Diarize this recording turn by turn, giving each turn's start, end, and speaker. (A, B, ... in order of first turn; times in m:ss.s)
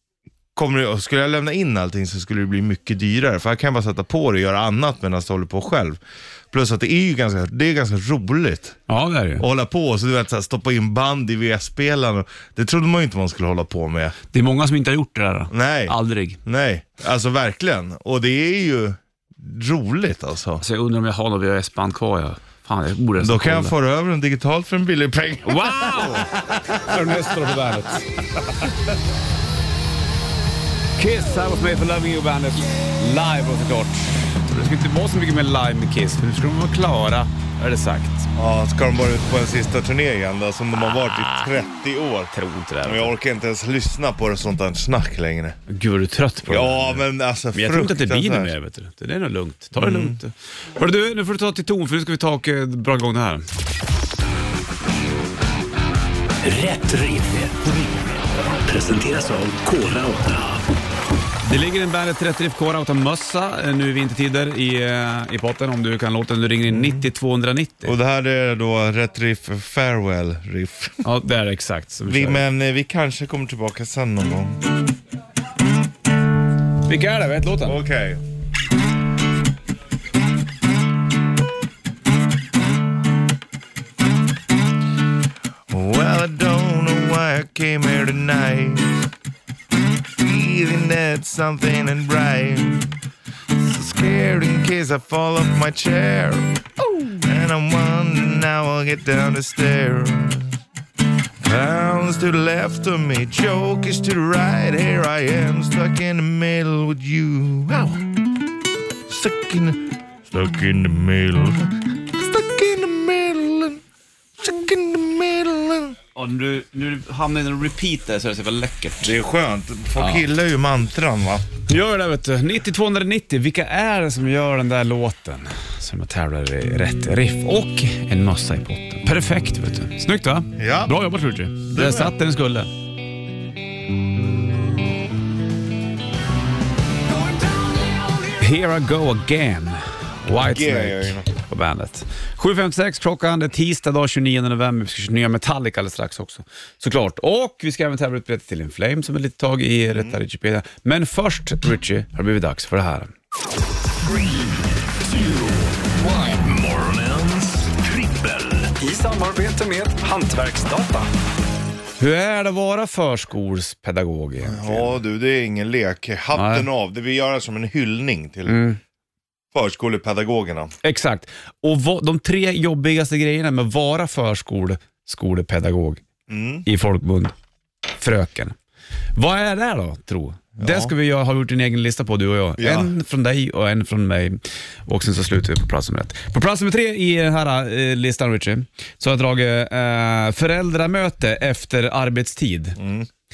0:00.6-0:06.0 A
0:06.5-0:08.8 A
0:08.9-0:09.4 B
0:09.4-0:14.2 A
0:14.3-0:16.4 B
0:15.5-0:20.6 A
0:20.6-0:23.8 B
0:23.2-0:27.0 A
0:25.4-0:28.6 B
0:31.0-0:38.3 B
0:38.4-0:42.3 A
0:41.0-0:41.5 B
0:42.3-0:43.1 B
0:42.8-0:45.6 A
0:45.7-0:53.5 B
0:46.5-0:48.5 A
0:49.8-0:50.2 A
0:56.4-1:00.7 C
1:01.4-1:07.9 B
1:06.7-1:07.0 A
1:07.8-1:11.0 A
1:11.0-1:12.5 B
1:12.1-1:14.7 A
1:16.8-1:17.8 B
1:17.6-1:18.2 A
1:25.7-1:29.0 A
1:30.2-1:33.0 A
1:33.5-1:36.6 A
1:37.2-1:40.6 A
1:41.4-1:48.0 A
1:49.1-1:53.8 A
1:54.4-1:56.0 A
1:56.2-1:59.2 B
1:59.0-2:01.5 A
2:00.0-2:00.3 B
2:01.7-2:12.7 B
2:10.6-2:11.0 A
2:11.7-2:12.1 A
2:18.4-2:33.1 B
2:20.4-2:21.3 A
2:29.9-2:30.2 A
2:34.2-2:34.4 C
2:35.0-2:38.7 C
2:38.8-2:41.1 B
2:42.0-2:45.0 B
2:44.4-2:48.7 A
2:46.3-2:46.7 B
2:48.5-2:48.8 B
2:49.5-2:50.7 A
2:50.8-2:56.0 B
2:56.3-2:56.7 A
2:56.6-2:57.3 B
2:58.0-2:58.6 B
2:59.1-3:12.8 B
3:00.6-3:00.9 A
3:02.6-3:02.9 A
3:12.8-3:13.1 A